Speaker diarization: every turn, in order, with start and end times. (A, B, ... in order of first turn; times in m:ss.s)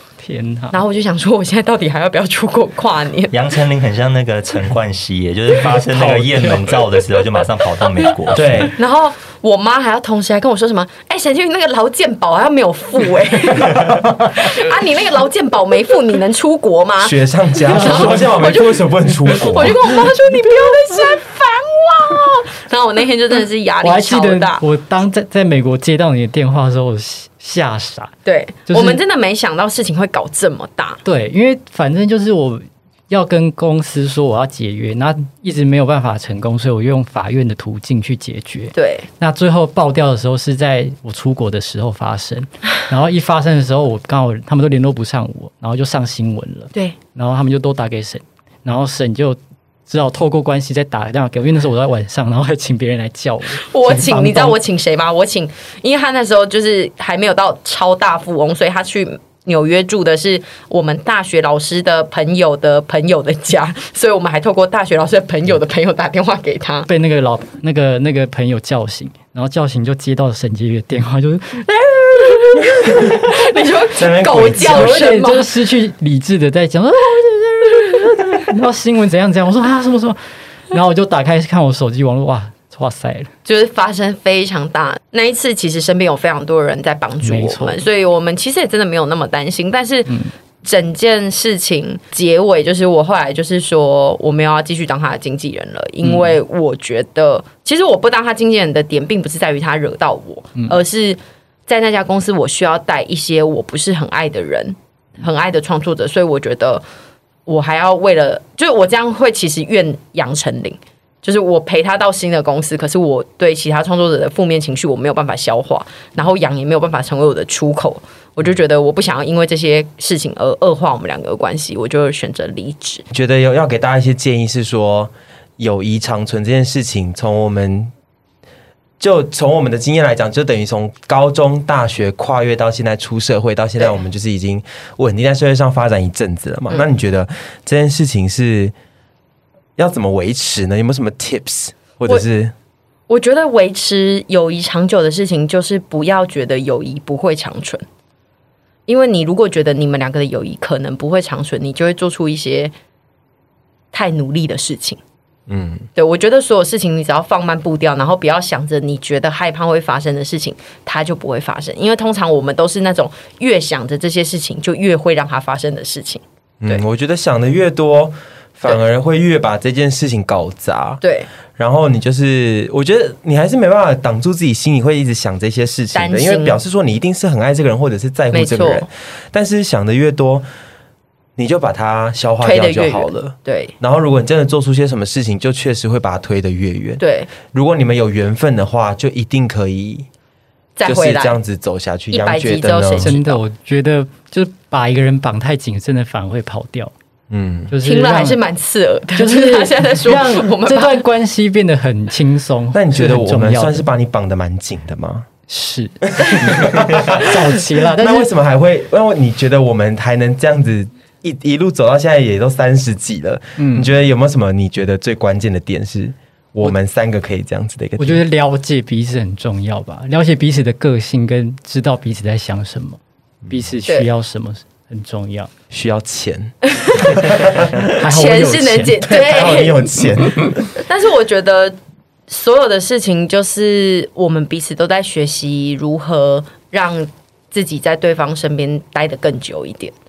0:00.2-0:00.8 A
0:00.7-0:03.3 B
0:03.3-0:08.7 C
0:05.9-0:06.8 A
0:08.3-0:08.7 D
0:08.8-0:24.6 B
0:17.0-0:19.8 D
0:17.7-0:18.6 A
0:23.8-0:28.2 A
0:28.2-0:31.0 B
0:28.7-0:29.0 A
0:31.0-0:54.6 A
0:38.7-0:39.1 B
0:53.6-1:06.9 B
1:06.9-1:13.1 A
1:12.2-1:15.5 B
1:14.0-1:15.0 D
1:14.6-1:23.3 A
1:23.4-1:46.8 B
1:27.2-1:27.8 A
1:47.5-2:03.0 B
2:03.1-2:07.9 D
2:09.0-2:18.7 D
2:19.8-2:22.5 D
2:23.1-2:27.8 B
2:28.9-2:32.7 B
2:33.9-2:35.0 B
2:35.5-2:35.8 D
2:36.0-2:46.8 B
2:46.6-2:51.0 D
2:51.0-2:51.3 B
2:51.6-3:00.5 D
2:55.9-2:56.6 B
2:58.3-2:58.9 B
3:01.4-3:10.1 D
3:02.4-3:03.7 B
3:07.0-3:07.3 B
3:10.8-3:11.4 B
3:10.8-3:13.2 D
3:12.1-3:13.4 B
3:13.0-3:16.9 A
3:17.3-3:17.7 D
3:17.7-3:18.4 A
3:17.8-3:21.1 B
3:19.2-3:23.8 A
3:22.7-3:25.3 D
3:25.5-3:28.3 A
3:26.2-3:38.2 D
3:33.6-3:33.9 A
3:38.0-3:45.5 A
3:45.7-3:47.9 D
3:46.6-3:47.3 B
3:47.8-3:49.0 A
3:48.0-3:49.9 B
3:49.0-3:50.6 D
3:50.8-3:51.8 B
3:52.3-3:59.9 B